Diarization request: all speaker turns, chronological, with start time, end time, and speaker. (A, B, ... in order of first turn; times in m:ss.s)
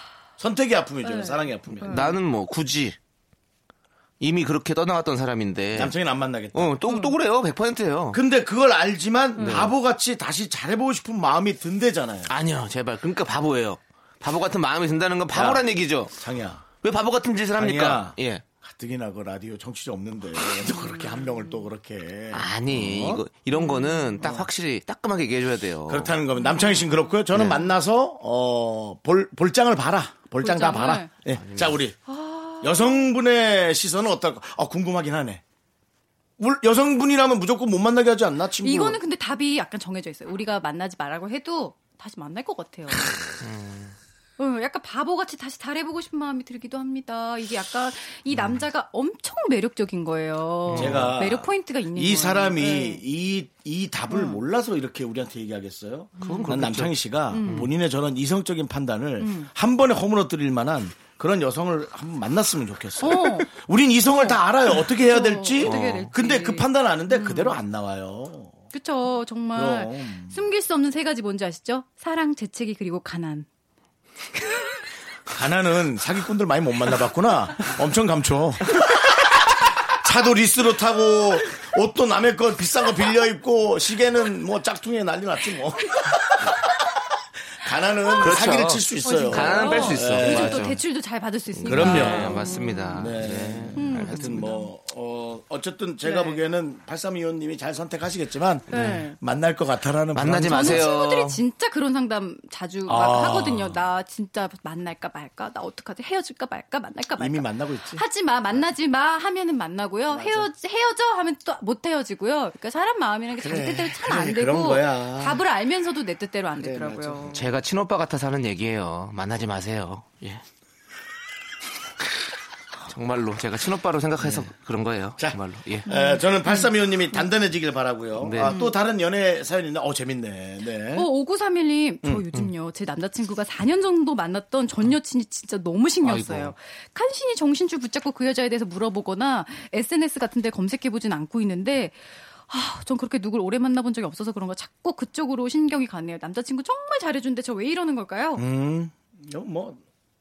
0:00.4-0:02.1 A
0:01.0-0:02.1 B
0:01.8-0:03.0 C
0:04.2-0:06.0 C
0:05.7-0:06.8 A
0:06.5-0:08.2 C
0:06.9-0:07.1 B
0:08.1-0:12.3 A
0:09.4-0:09.7 C
0:12.3-0:16.1 C
0:15.3-0:16.7 A
0:16.8-0:18.4 C
0:17.6-0:23.2 A
0:22.3-0:26.1 C
0:23.5-0:24.1 B
0:25.9-0:32.0 A
0:26.4-0:26.9 B
0:27.3-0:27.6 C
0:30.4-0:31.1 B
0:31.3-0:31.8 C
0:32.0-0:33.1 B
0:32.6-0:35.4 A
0:36.4-0:39.0 A
0:38.6-0:43.1 B
0:43.4-0:44.0 C
0:44.4-0:53.0 B
0:50.7-0:51.2 C
0:50.7-1:08.6 A
0:54.1-0:54.4 B
0:56.2-0:56.6 B
0:56.2-0:57.7 C
0:57.3-0:57.7 B
0:59.2-0:59.5 B
1:03.0-1:03.5 B
1:04.0-1:07.6 B
1:05.6-1:06.1 C
1:08.7-1:13.5 B
1:09.5-1:10.4 A
1:15.3-1:19.0 A
1:19.9-1:26.8 A
1:27.6-1:30.7 A
1:28.2-1:30.8 C
1:29.0-1:33.1 B
1:31.5-1:34.4 C
1:31.7-1:40.9 A
1:33.7-1:34.7 B
1:36.0-1:36.4 B
1:38.7-1:39.2 B
1:38.7-1:39.0 C
1:40.1-1:41.4 C
1:40.5-1:57.3 B
1:42.9-1:43.8 A
1:47.2-1:48.6 A
1:50.1-1:50.5 A
1:53.4-1:55.4 A
1:56.6-1:57.5 A
1:57.3-2:00.4 C
2:02.9-2:05.9 C
2:04.2-2:04.5 A
2:05.2-2:11.1 A
2:05.9-2:07.2 B
2:08.2-2:08.6 C
2:08.4-2:08.8 B
2:10.9-2:28.4 B
2:16.0-2:16.5 C
2:28.3-2:29.8 A